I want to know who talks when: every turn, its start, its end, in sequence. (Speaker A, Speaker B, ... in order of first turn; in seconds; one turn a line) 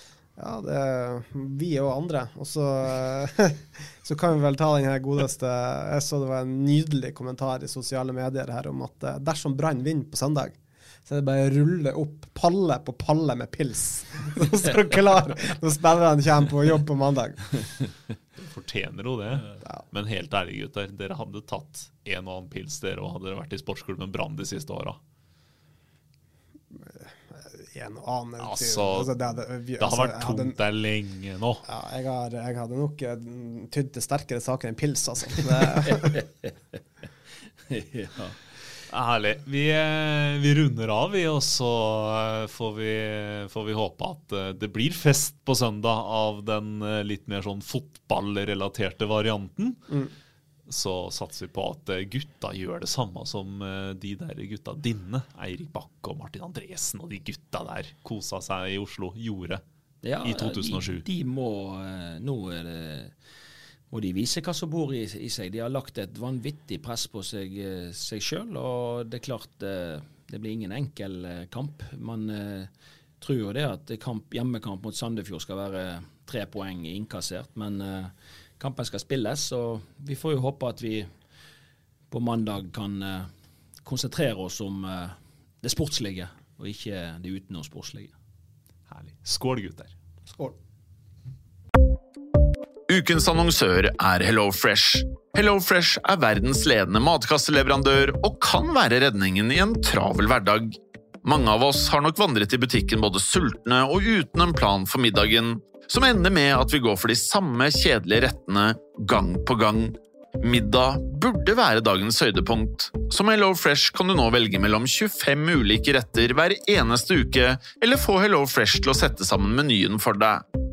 Speaker A: 0.4-10.5
Speaker A: 11.1-17.6
Speaker B: 18.4-25.0
Speaker A: 27.6-30.6
Speaker B: 28.4-29.1
Speaker B: 29.8-31.6
Speaker A: 31.7-36.2
Speaker C: 35.9-36.8
Speaker C: 37.7-38.4
Speaker B: 38.9-49.8
Speaker B: 50.7-59.6
Speaker C: 60.0-63.1
Speaker B: 60.2-61.0
Speaker C: 63.9-72.7
Speaker C: 73.2-81.1
Speaker C: 82.1-83.3
Speaker C: 83.8-88.1
Speaker B: 88.9-89.9
Speaker D: 92.9-120.4